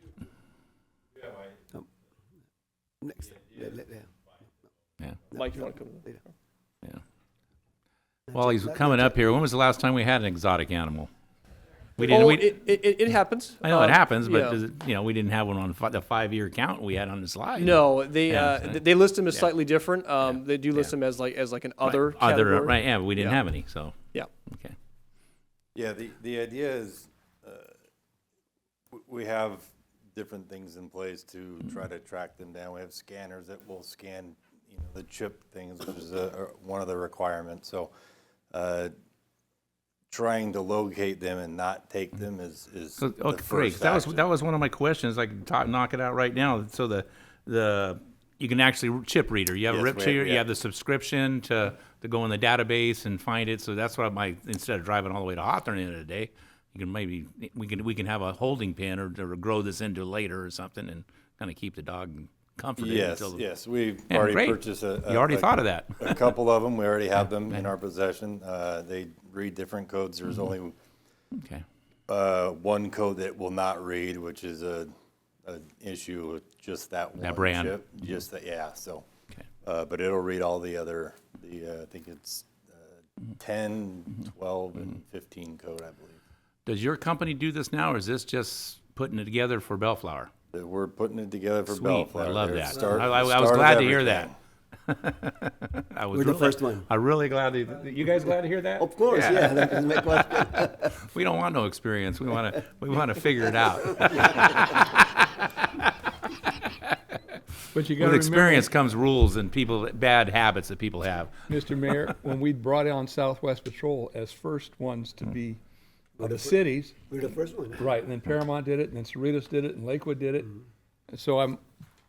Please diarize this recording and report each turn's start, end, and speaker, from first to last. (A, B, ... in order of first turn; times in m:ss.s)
0:03.0-0:04.1 A
0:05.3-0:06.3 B
0:08.3-0:11.1 C
0:08.4-0:08.8 A
0:12.0-0:12.5 C
0:12.1-0:14.6 B
0:13.6-0:18.8 C
0:17.6-0:23.4 B
0:20.2-0:20.9 C
0:21.8-0:24.0 C
0:24.5-0:24.8 C
0:25.8-0:27.7 D
0:28.9-0:37.9 D
0:38.5-0:38.9 D
0:40.1-0:44.2 D
0:43.0-1:03.4 C
0:49.7-0:50.4 D
1:02.8-1:10.8 D
1:04.1-1:06.3 C
1:11.4-1:11.6 C
1:12.1-1:14.9 D
1:15.5-1:19.0 D
1:17.2-1:17.8 C
1:19.6-1:26.2 D
1:26.7-1:30.3 C
1:30.5-1:34.4 D
1:31.7-1:34.3 C
1:34.9-1:45.2 C
1:36.1-1:36.8 A
1:38.8-1:40.9 A
1:47.7-1:48.7 E
1:48.0-1:51.3 C
1:51.5-1:55.6 E
1:56.2-1:57.1 E
1:56.2-1:56.5 A
1:57.1-1:57.8 A
1:57.8-2:00.6 E
2:01.1-2:01.6 E